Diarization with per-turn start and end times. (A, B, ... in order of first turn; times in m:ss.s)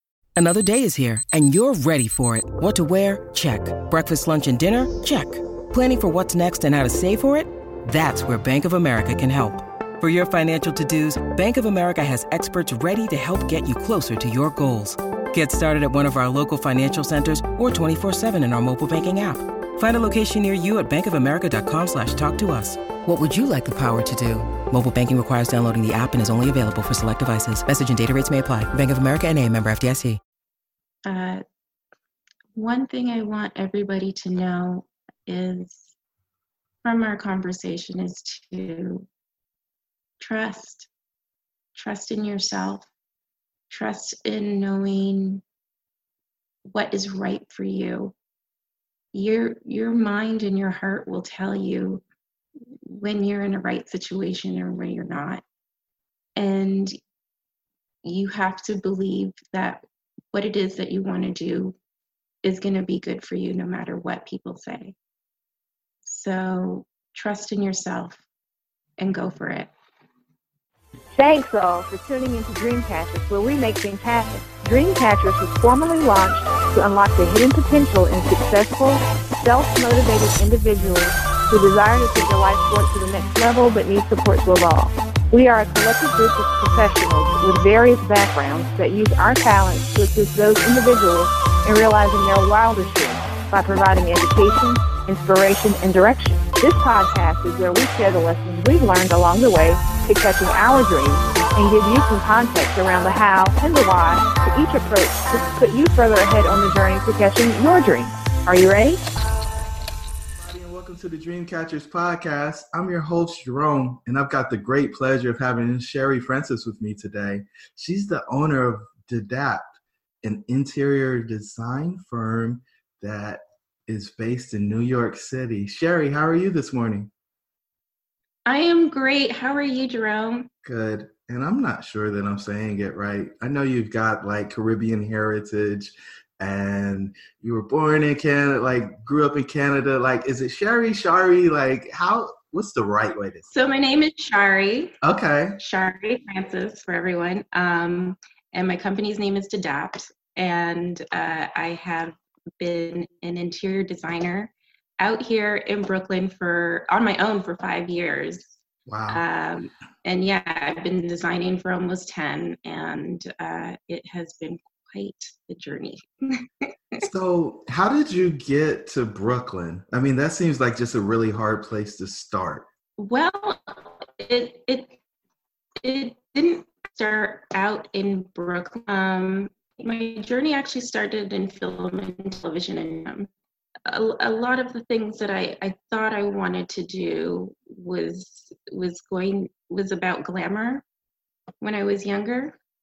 0:00.4-0:30.2 A
0:31.1-0:31.4 B
0:32.6-0:35.9 B
0:36.8-0:39.1 B
0:40.2-0:40.9 B
0:41.8-0:42.9 B
0:43.7-0:45.4 B
0:46.7-0:48.1 B
0:49.1-0:52.0 B
0:52.8-0:55.4 B
0:56.4-0:57.0 B
0:58.0-1:01.8 B
1:02.4-1:05.0 B
1:06.0-1:08.2 B
1:09.0-1:09.7 B
1:11.2-1:49.0 C
1:50.4-2:07.1 D
2:08.5-2:10.5 B
2:10.6-2:23.5 D
2:23.5-2:25.0 B
2:25.0-2:25.6 D
2:25.6-2:38.5 B
2:38.9-2:39.2 D
2:39.1-2:47.0 B
2:47.0-2:52.7 D
2:53.0-2:55.0 B
2:55.8-3:03.3 B
3:03.9-3:10.8 B
3:11.6-3:12.6 B